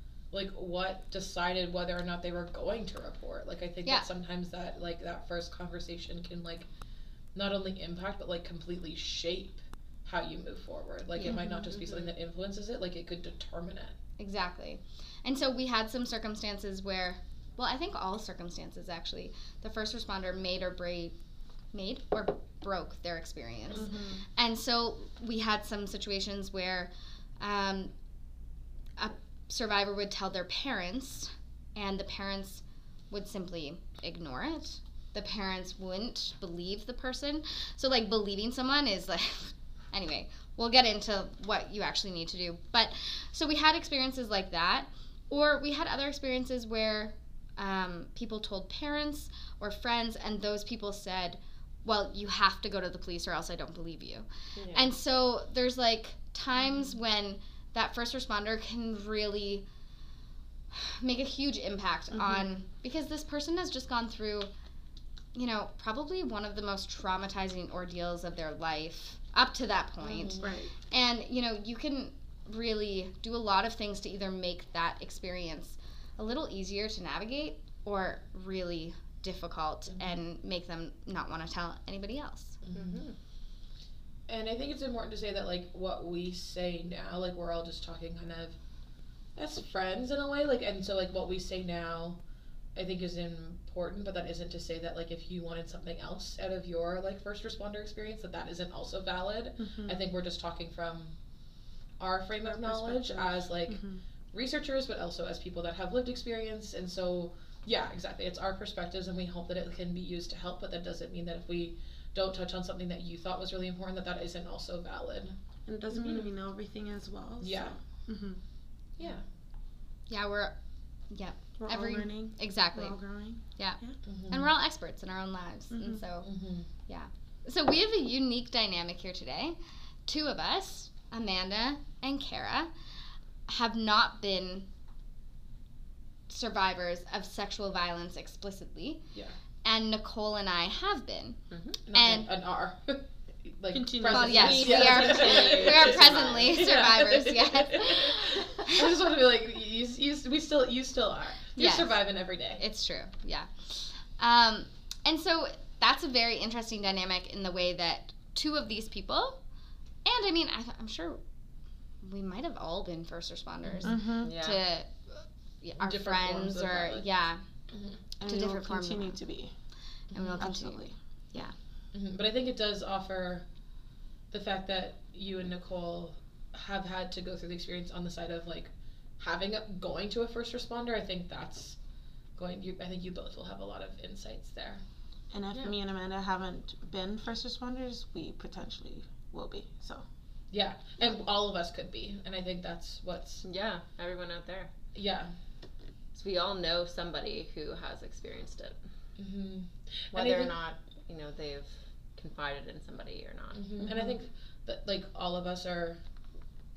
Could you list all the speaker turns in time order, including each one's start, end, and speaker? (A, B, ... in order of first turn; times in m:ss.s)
0:00.3-0:06.7 A
0:07.3-0:14.0 A
0:11.2-0:11.6 B
0:11.2-0:12.1 C
0:14.2-0:21.1 B
0:21.7-0:27.9 B
0:23.7-0:24.2 C
0:29.0-0:59.6 B
0:54.6-0:54.9 C
1:00.7-1:04.5 B
1:02.1-1:02.5 D
1:05.3-1:22.6 B
1:10.0-1:10.5 A
1:10.4-1:10.7 D
1:19.9-1:20.2 A
1:22.6-1:23.0 A
1:22.7-1:23.2 C
1:24.3-1:28.6 A
1:29.4-1:32.2 A
1:32.7-1:41.2 A
1:39.6-1:40.0 D
1:42.0-1:55.3 A
1:42.4-1:44.0 D
1:55.7-1:58.4 D
1:56.0-1:56.3 C
1:57.4-1:57.8 A
1:59.0-1:59.2 A
2:00.1-2:00.6 B
2:01.1-2:03.0 B
2:01.6-2:04.0 D
2:03.6-2:06.3 B
2:04.0-2:04.5 A
2:05.7-2:06.0 D
2:06.2-2:06.7 A
2:06.9-2:12.7 B
2:13.5-2:14.7 B
2:16.3-2:19.0 B
2:19.6-2:21.4 B
2:21.5-2:21.8 C
2:21.9-2:32.6 A
2:21.9-2:22.3 B
2:23.7-2:25.4 D
2:24.1-2:28.8 B
2:24.3-2:26.6 C
2:31.6-2:32.0 B
2:32.6-2:39.4 B
2:40.0-2:41.2 B
2:42.0-2:47.4 B
2:43.6-2:44.0 A
2:43.8-2:44.3 D
2:44.2-2:44.6 C
2:45.8-2:47.1 A
2:47.7-2:48.0 A
2:48.2-2:49.2 B
2:48.3-2:49.5 D
2:50.1-2:50.5 A
2:50.1-2:51.5 B
2:50.4-2:50.9 D
2:51.9-2:53.4 A
2:54.3-3:01.8 A
3:02.4-3:04.8 A
3:05.3-3:10.0 D
3:10.5-3:13.4 A
3:13.4-3:14.7 C
3:14.9-3:15.3 A
3:16.1-3:18.8 C
3:19.2-3:20.5 A
3:20.1-3:23.7 C
3:23.5-3:26.0 A